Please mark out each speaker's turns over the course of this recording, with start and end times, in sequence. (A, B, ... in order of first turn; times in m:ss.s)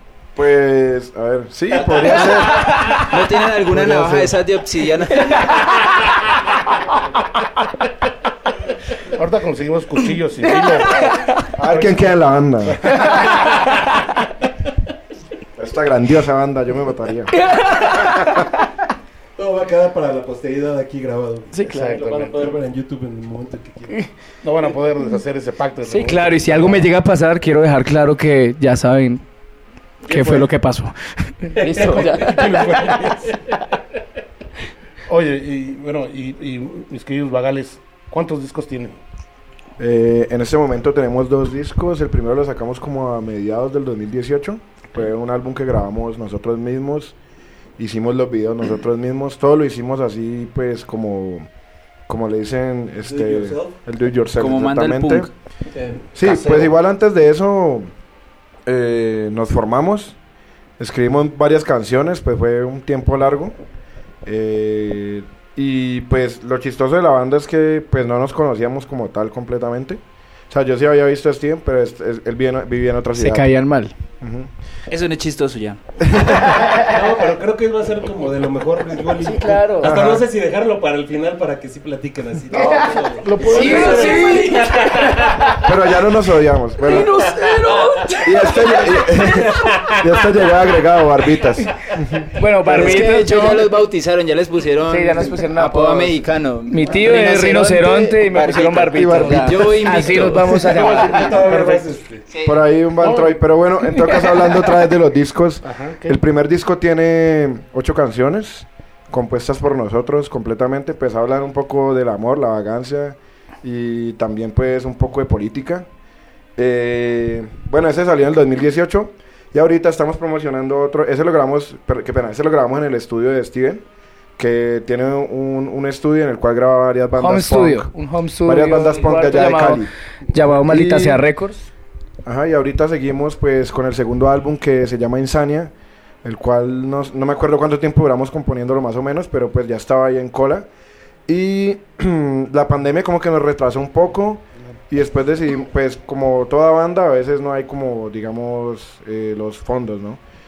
0:00.3-0:02.9 A
0:02.2-0:03.2 B
0:02.9-0:05.5 C
0:03.7-0:04.3 A
0:05.1-0:06.1 B
0:09.1-0:12.0 D
0:11.6-0:13.1 A
0:13.0-0:13.3 B
0:15.6-0:17.4 A
0:17.3-0:18.6 B
0:19.4-0:24.0 E
0:21.5-0:22.0 B
0:21.7-0:22.6 D
0:24.4-0:26.9 D
0:25.8-0:29.2 B
0:30.0-0:30.5 E
0:30.1-0:33.1 B
0:31.6-0:33.6 E
0:35.1-0:39.0 D
0:39.8-0:47.1 A
0:47.8-0:51.5 A
0:52.1-0:55.3 A
0:53.0-0:53.8 E
0:54.4-0:55.3 C
0:55.7-0:56.7 E
0:56.1-0:57.9 A
0:58.6-1:00.2 A
1:00.8-1:03.6 A
1:04.2-1:13.5 A
1:13.2-1:13.9 B
1:14.2-1:14.5 A
1:14.9-1:15.8 C
1:16.0-1:16.6 A
1:16.7-1:25.6 E
1:19.2-1:19.9 B
1:19.8-1:20.3 A
1:22.5-1:25.6 B
1:22.6-1:24.4 D
1:25.6-1:27.3 A
1:26.8-1:29.0 B
1:27.4-1:30.4 E
1:28.2-1:32.3 A
1:32.3-1:33.7 B
1:32.7-1:40.7 C
1:34.9-1:41.7 B
1:38.9-1:40.1 A
1:40.6-1:42.2 E
1:41.5-1:41.8 A
1:42.3-1:42.6 B
1:42.4-1:55.9 A
1:43.0-1:43.3 D
1:43.9-1:44.5 B
1:45.6-1:46.2 D
1:56.6-2:03.8 A
2:04.4-2:07.9 A
2:07.2-2:11.7 B
2:08.4-2:09.9 A
2:10.5-2:11.2 A
2:12.2-2:15.7 A
2:16.2-2:20.7 A
2:21.3-2:30.2 A